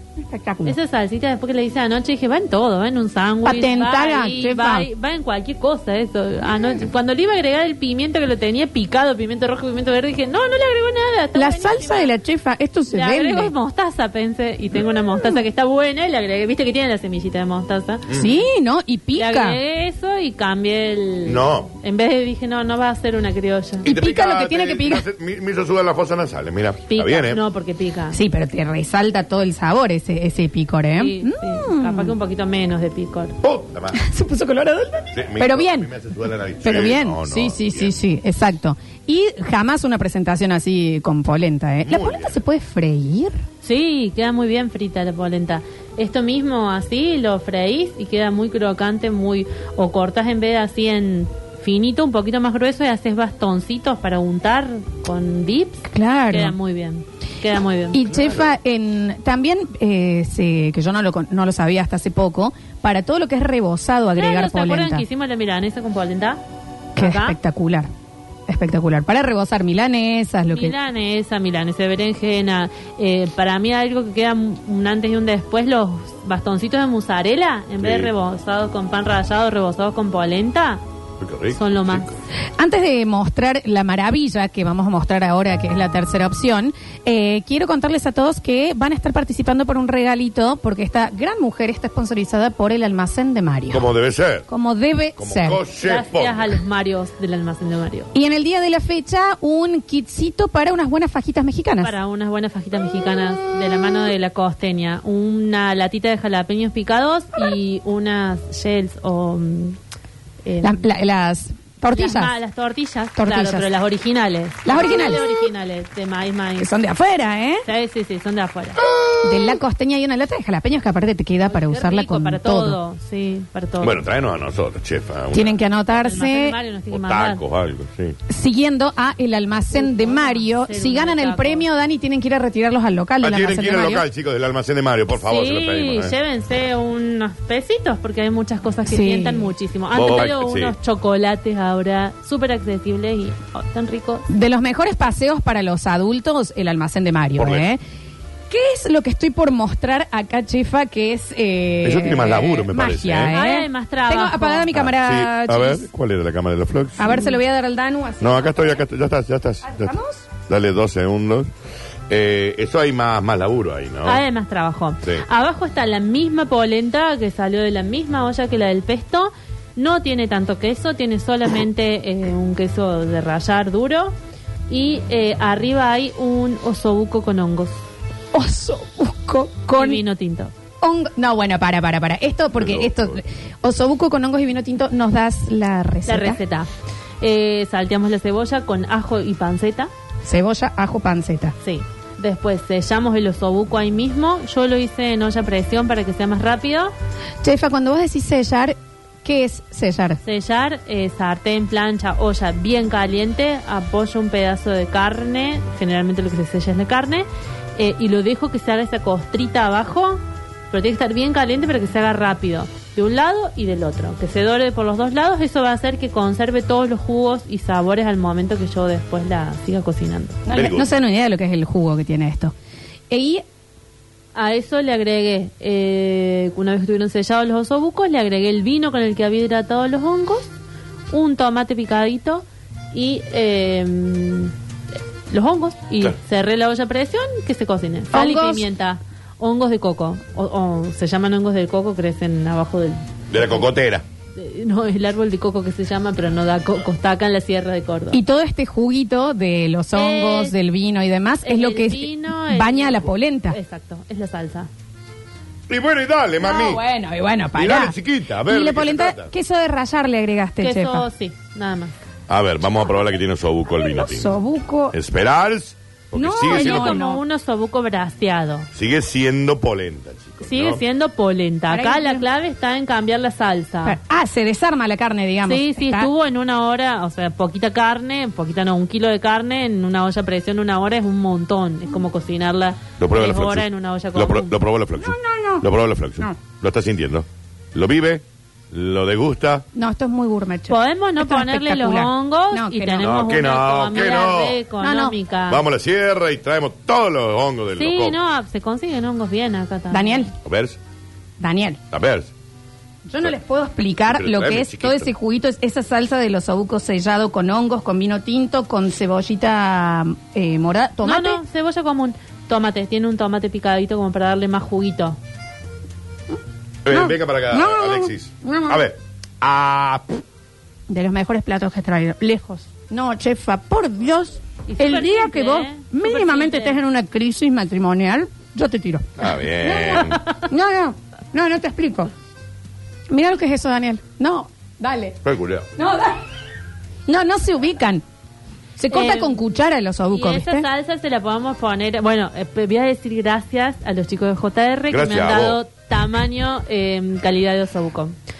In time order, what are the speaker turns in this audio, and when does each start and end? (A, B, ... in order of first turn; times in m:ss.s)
0:00.2-0:00.8 A
0:00.6-0:12.1 B
0:03.4-0:04.9 A
0:11.4-0:13.5 A
0:12.9-0:18.1 B
0:18.1-0:18.3 C
0:18.1-0:19.6 A
0:19.2-0:23.9 B
0:21.2-0:21.7 C
0:23.8-0:25.0 A
0:23.9-0:27.4 C
0:26.9-0:28.2 B
0:28.1-0:32.2 A
0:31.0-0:33.4 B
0:33.4-0:34.0 C
0:33.9-0:35.9 A
0:35.1-0:38.0 C
0:36.6-0:43.4 A
0:41.8-0:42.4 C
0:43.6-0:58.0 B
0:55.9-0:56.6 A
0:57.9-1:05.0 A
1:04.2-1:06.4 B
1:07.0-1:07.9 A
1:07.0-1:07.4 B
1:08.5-1:10.8 A
1:10.5-1:20.8 B
1:17.8-1:18.1 C
1:21.2-1:22.1 C
1:21.5-1:22.1 B
1:22.6-1:33.9 A
1:33.7-1:34.5 C
1:34.5-1:35.6 A
1:35.2-1:36.6 C
1:35.8-1:38.1 B
1:38.1-1:41.9 A
1:41.8-1:49.8 B
1:50.4-1:50.8 B
1:50.6-1:52.3 A
1:51.9-1:56.7 B
1:53.2-1:53.7 A
1:54.6-1:55.3 A
1:56.6-1:57.7 A
1:57.7-1:58.8 B
1:59.2-2:02.8 A
2:01.5-2:04.0 B
2:03.8-2:05.6 C
2:05.3-2:06.6 A
2:05.9-2:07.4 B
2:06.9-2:08.2 C
2:08.3-2:14.0 A
2:09.7-2:11.7 B
2:13.2-2:16.2 C
2:15.2-2:24.2 B
2:18.9-2:19.5 A
2:19.9-2:20.7 C
2:24.3-2:27.8 A
2:27.4-2:27.7 C
2:28.5-2:35.9 A
2:31.8-2:33.4 C
2:33.3-2:34.7 B
2:34.7-2:37.2 C
2:37.0-2:38.8 A
2:38.2-2:40.0 C
2:39.6-2:40.3 A
2:40.5-2:41.5 C
2:42.1-2:44.2 C
2:44.0-2:54.2 B
2:54.7-2:57.7 B
2:58.3-3:00.0 A
2:59.7-3:00.5 B
3:00.8-3:06.4 A
3:02.6-3:03.2 C
3:06.1-3:06.7 B
3:07.2-3:09.9 B
3:10.2-3:11.5 A
3:11.6-3:16.9 B
3:17.4-3:20.2 A
3:20.2-3:40.4 B
3:40.5-3:42.5 A
3:40.5-3:40.9 C
3:43.1-3:43.4 A
3:44.4-3:50.5 B
3:51.1-3:54.5 B
3:55.3-4:03.0 B
3:58.1-3:58.7 A
4:03.3-4:04.0 C
4:04.4-4:08.2 B
4:08.1-4:13.6 A
4:10.0-4:10.6 B
4:11.4-4:14.7 B
4:15.7-4:16.8 C
4:16.4-4:18.0 A
4:17.6-4:19.3 C
4:18.5-4:21.1 A
4:20.6-4:21.9 B
4:22.3-4:24.3 C
4:23.7-4:25.0 A
4:24.9-4:27.0 C
4:26.1-4:27.2 A
4:26.5-4:28.7 B
4:28.8-4:30.8 C
4:30.4-4:34.0 B
4:31.7-4:32.2 A
4:33.8-4:36.1 A
4:35.5-4:44.5 B
4:43.0-4:49.6 C
4:45.0-4:45.7 A
4:49.8-4:53.2 A
4:50.7-4:55.6 B
4:53.0-4:54.6 C
4:54.8-4:55.2 A
4:55.5-4:58.2 C
4:57.8-5:00.3 B
4:59.9-5:00.3 A
5:00.4-5:00.8 C
5:01.4-5:01.8 A
5:01.9-5:02.3 C
5:03.1-5:11.4 A
5:04.1-5:05.1 C
5:11.0-5:15.2 B
5:16.8-5:20.2 C
5:16.9-5:18.8 A
5:20.9-5:29.1 A
5:24.7-5:26.8 B
5:29.2-5:30.2 C
5:29.6-5:32.1 A
5:33.1-5:35.2 A
5:35.2-5:35.7 C
5:35.8-5:36.2 A
5:37.1-5:38.0 A
5:38.8-5:40.7 A
5:38.9-5:39.4 B
5:40.1-5:48.2 B
5:44.9-5:45.6 C